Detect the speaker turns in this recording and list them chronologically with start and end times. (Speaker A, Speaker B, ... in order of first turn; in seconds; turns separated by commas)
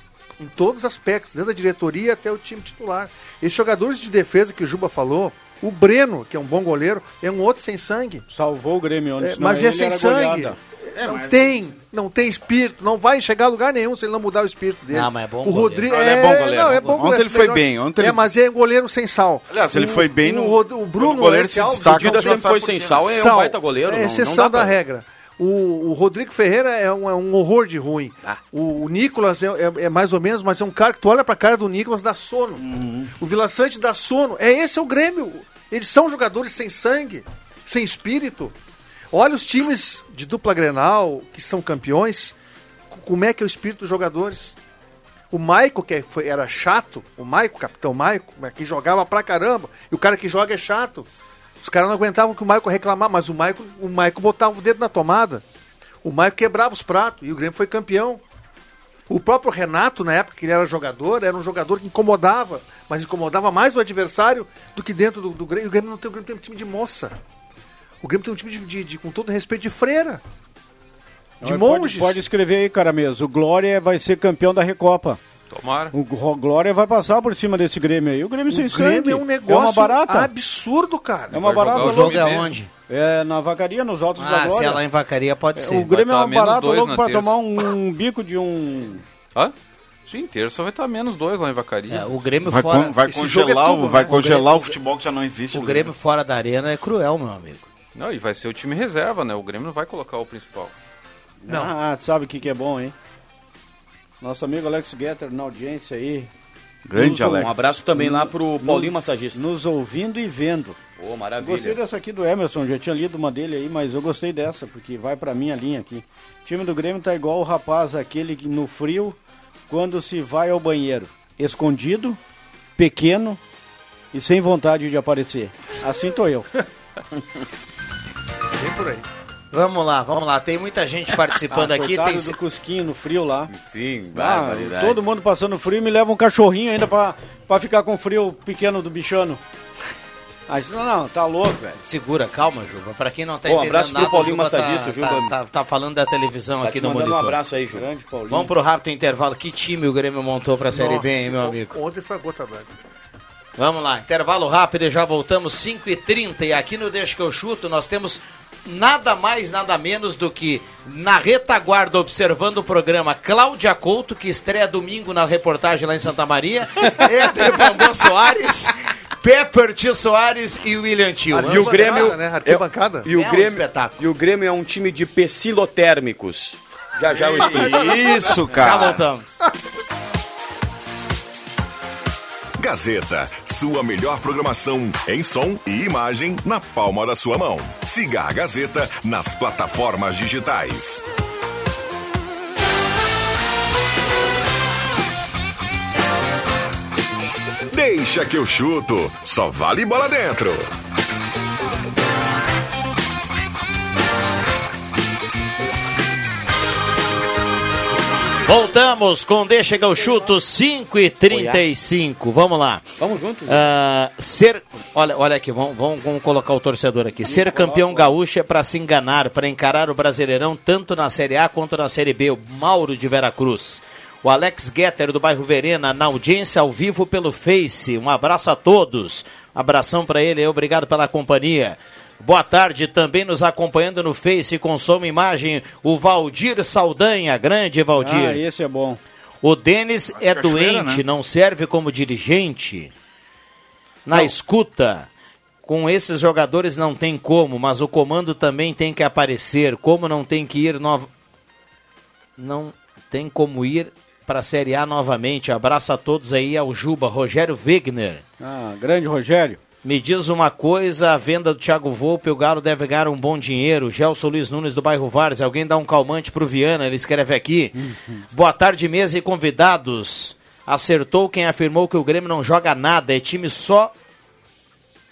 Speaker A: 0.4-8.2, Speaker B: 8.3-10.6, Speaker A: 9.2-22.5, Speaker C: 10.9-11.6, Speaker D: 14.9-16.0, Speaker C: 15.9-18.2, Speaker C: 19.5-23.1, Speaker E: 21.8-24.8, Speaker A: 23.1-32.6, Speaker C: 32.6-33.1, Speaker A: 33.2-38.5, Speaker A: 39.1-42.3, Speaker A: 42.9-44.6, Speaker A: 45.3-51.1, Speaker A: 51.6-55.4, Speaker A: 56.0-58.2, Speaker A: 59.1-67.1, Speaker A: 68.0-70.2, Speaker A: 71.4-72.2, Speaker B: 71.4-75.2, Speaker F: 75.5-75.9, Speaker B: 75.9-80.3, Speaker A: 78.5-82.1, Speaker B: 81.3-82.3, Speaker F: 81.3-82.5, Speaker D: 81.8-82.7, Speaker B: 82.9-84.8, Speaker D: 84.2-85.9, Speaker B: 85.6-89.0, Speaker F: 85.9-87.3, Speaker F: 90.1-92.1, Speaker D: 91.9-93.0, Speaker C: 92.5-95.9, Speaker A: 93.0-94.5, Speaker D: 95.5-97.7, Speaker F: 98.0-100.7, Speaker B: 101.5-102.9, Speaker A: 101.5-101.7, Speaker B: 104.2-106.3, Speaker C: 106.9-107.5, Speaker B: 107.0-110.8, Speaker E: 107.3-109.4, Speaker E: 111.0-111.8, Speaker B: 111.4-119.2, Speaker B: 119.7-122.2, Speaker B: 122.8-123.4, Speaker B: 124.1-126.5, Speaker A: 128.6-129.1, Speaker D: 129.5-132.4, Speaker B: 131.5-133.5, Speaker E: 133.5-135.0, Speaker B: 134.1-139.4, Speaker B: 140.5-141.8, Speaker D: 141.8-147.4, Speaker E: 143.5-145.3, Speaker E: 146.6-147.9, Speaker B: 147.7-148.5, Speaker D: 148.3-151.8, Speaker A: 150.7-152.7, Speaker D: 153.6-172.1, Speaker A: 171.3-173.1, Speaker E: 171.5-178.0, Speaker D: 173.1-174.0, Speaker C: 177.4-179.1, Speaker A: 178.0-178.4, Speaker D: 178.5-179.4, Speaker G: 182.6-191.0, Speaker G: 197.7-200.7, Speaker D: 208.4-212.9, Speaker E: 211.3-211.6, Speaker E: 213.0-213.7, Speaker D: 213.5-238.4, Speaker B: 217.3-218.1, Speaker B: 238.0-239.0, Speaker D: 239.4-242.9, Speaker C: 240.1-241.0, Speaker D: 244.1-245.1, Speaker D: 245.6-251.1, Speaker D: 252.4-258.2, Speaker B: 258.4-259.6, Speaker D: 259.8-267.8, Speaker D: 268.3-273.9